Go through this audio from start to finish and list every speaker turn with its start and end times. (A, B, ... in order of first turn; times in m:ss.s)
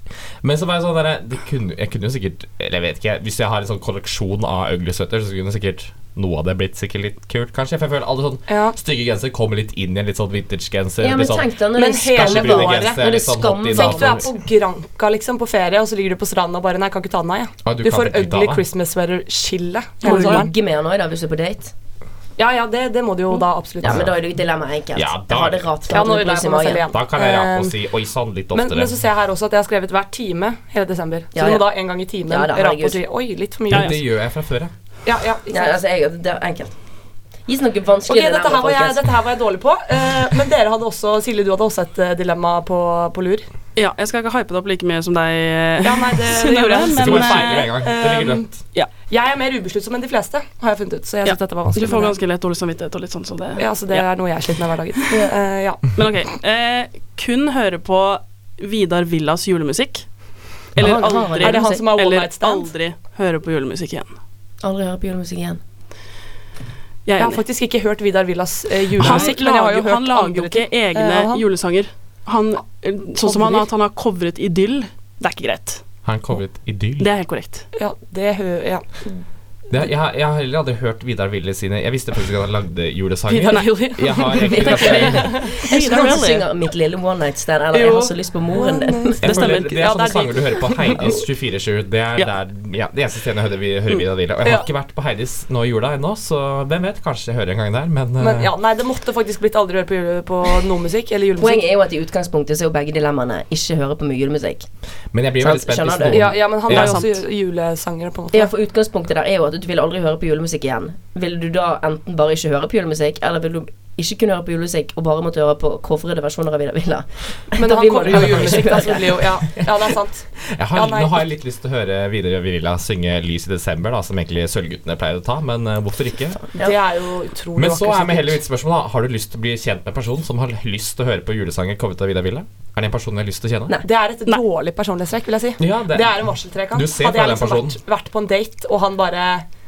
0:00.4-0:11.5 A
0:08.5-0:08.8 B
0:11.0-0:14.2 C
0:11.8-0:13.0 B
0:12.1-0:14.3 A
0:13.7-0:20.5 B
0:17.6-0:18.6 A
0:20.0-0:21.7 C
0:20.0-0:20.4 D
0:22.4-0:24.0 B
0:23.8-0:26.8 C
0:23.8-0:24.1 A
0:24.9-0:25.7 A
0:25.9-0:27.7 B
0:26.9-0:28.9 A
0:28.5-0:34.0 B
0:31.3-0:31.7 C
0:32.2-0:33.0 C
0:33.7-0:34.7 A
0:33.7-0:34.0 D
0:35.0-0:35.8 B
0:35.5-0:36.8 C
0:37.5-0:39.0 C
0:38.1-0:43.5 B
0:43.8-0:47.7 D
0:45.8-0:48.5 B
0:46.9-0:48.6 A
0:49.1-0:52.2 B
0:51.2-0:54.0 D
0:53.6-0:55.9 B
0:55.9-1:00.1 D
1:00.8-1:04.1 D
1:00.8-1:01.8 C
1:01.4-1:02.7 B
1:04.6-1:05.6 C
1:07.0-1:07.4 D
1:07.2-1:11.4 B
1:08.9-1:15.8 D
1:09.0-1:09.3 A
1:13.2-1:13.7 B
1:16.0-1:17.1 A
1:17.0-1:17.6 D
1:17.8-1:19.1 B
1:19.7-1:25.4 A
1:23.3-1:25.5 B
1:23.5-1:26.5 D
1:24.3-1:29.2 C
1:27.7-1:31.1 B
1:29.2-1:38.5 A
1:29.2-1:29.8 D
1:38.2-1:41.6 B
1:41.4-1:44.7 C
1:45.1-1:47.0 A
1:45.4-1:46.3 C
1:46.1-1:48.5 B
1:46.7-1:47.1 D
1:48.3-1:59.3 C
1:57.6-2:01.2 B
1:58.1-1:58.7 A
2:00.4-2:06.4 A
2:06.6-2:08.4 B
2:07.6-2:13.7 A
2:13.8-2:19.4 B
2:15.6-2:17.8 A